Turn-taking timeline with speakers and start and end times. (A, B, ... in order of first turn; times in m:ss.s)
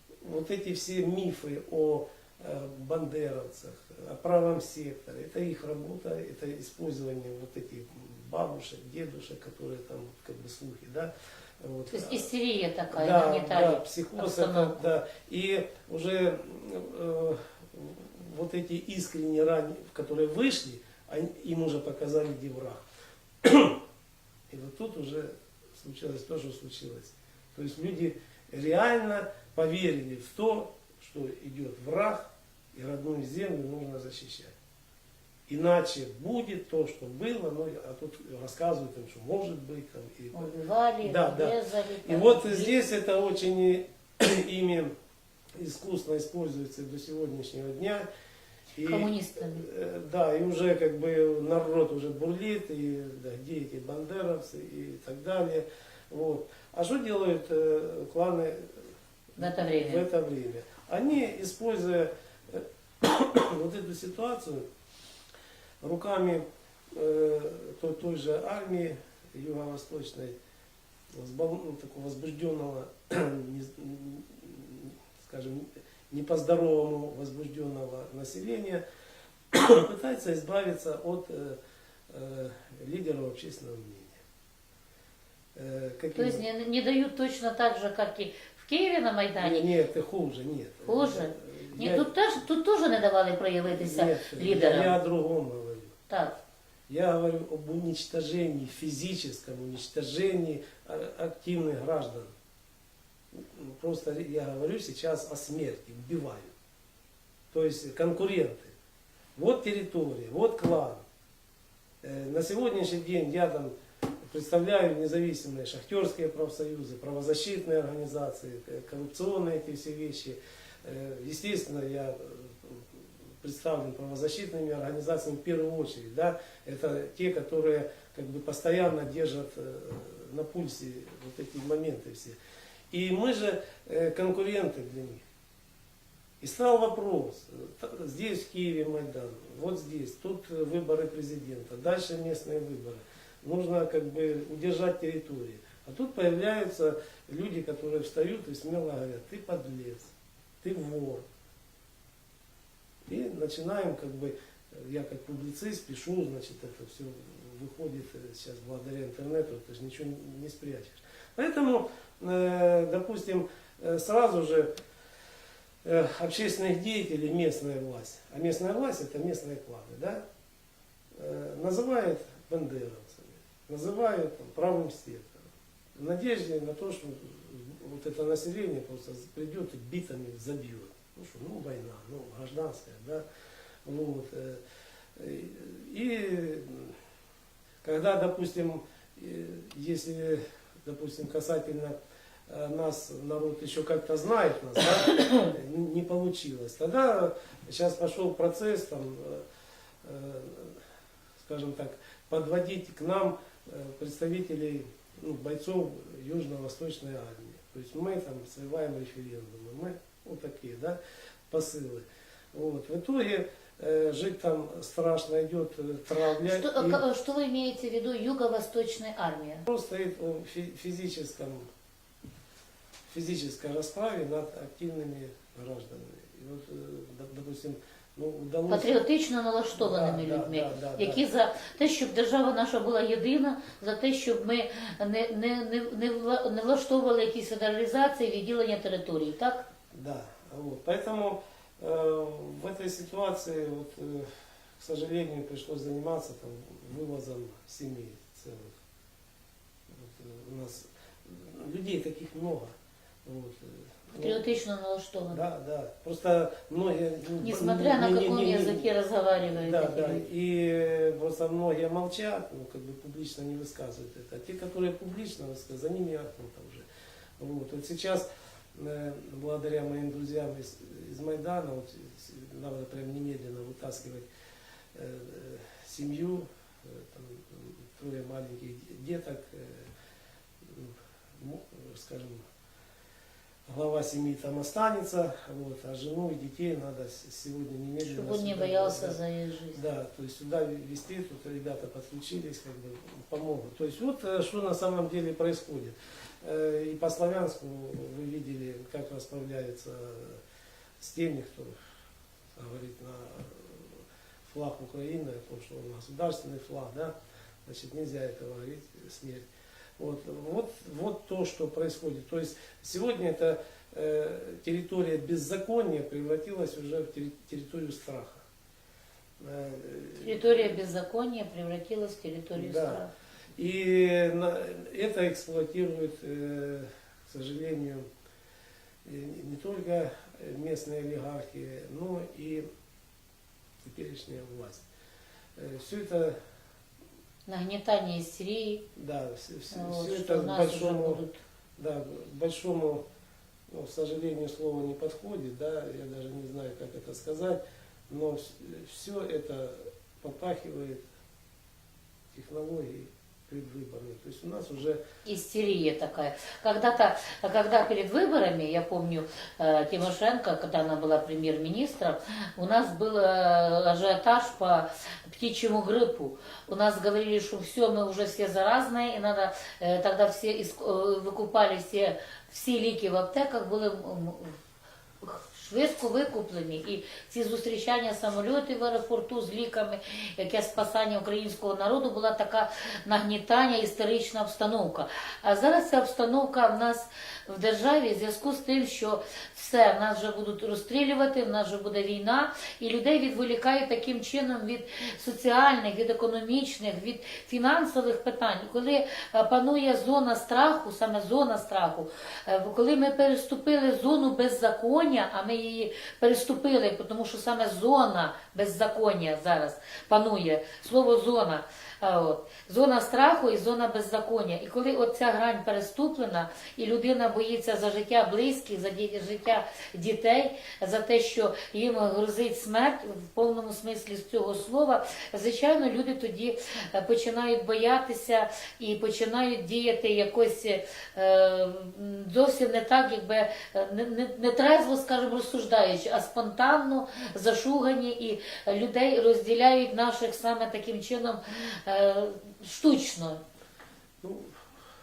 0:00.2-0:12.3 A
0:11.9-0:14.8 B
0:12.9-0:22.8 A
0:23.4-0:23.8 A
0:24.5-0:34.5 A
0:35.5-0:40.5 A
0:40.3-0:42.7 B
0:41.0-0:44.9 A
0:45.6-0:48.1 A
0:48.8-1:04.7 A
0:48.8-0:49.7 B
0:59.4-1:00.0 B
1:05.8-1:10.4 A
1:11.1-1:18.8 A
1:19.5-1:21.6 A
1:22.1-1:24.2 A
1:25.6-1:26.4 A
1:26.2-1:29.7 B
1:29.4-1:32.1 A
1:30.9-1:34.9 B
1:33.8-1:36.0 A
1:36.1-1:36.4 B
1:36.9-1:42.3 A
1:43.3-1:46.5 A
1:47.5-1:48.7 A
1:49.4-1:51.0 A
1:52.0-1:53.7 A
1:54.3-2:12.4 A
2:12.9-2:15.2 A
2:16.4-2:31.2 A
2:33.1-2:44.7 A
2:45.8-2:50.2 A
2:51.2-2:55.4 A
2:56.0-3:03.2 A
3:03.8-3:04.6 A
3:05.2-3:07.0 A
3:07.8-3:11.9 A
3:12.5-3:19.4 A
3:20.0-3:20.8 A
3:21.4-3:31.0 A
3:31.5-3:37.0 A
3:36.4-3:39.7 B
3:39.7-3:41.7 A
3:43.1-3:49.0 A
3:48.7-3:59.6 B
3:49.8-3:51.2 A
3:59.9-4:08.7 A
4:09.9-4:12.7 A
4:13.2-4:14.4 A
4:14.1-4:15.4 B
4:15.3-4:18.9 A
4:17.4-4:20.3 B
4:19.5-4:26.9 A
4:27.4-4:34.3 A
4:34.9-4:39.9 A
4:40.6-4:42.4 A
4:43.7-4:49.2 A
4:48.0-4:49.8 B
4:49.7-5:00.4 A
5:01.0-5:01.7 A
5:02.6-5:07.1 A
5:07.6-5:09.5 A
5:10.0-5:18.4 A
5:19.4-5:20.7 A
5:20.2-5:23.1 B
5:22.6-5:23.0 A
5:23.6-5:28.1 A
5:29.0-5:32.6 A
5:33.8-5:34.9 A
5:35.6-5:36.4 A
5:37.5-5:38.8 B
5:39.0-5:41.2 A
5:39.7-5:41.4 B
5:41.8-5:43.0 A
5:43.7-5:51.0 A
5:52.3-5:55.0 A
5:55.3-6:14.6 B
6:15.2-7:23.4 B
7:24.2-7:24.5 A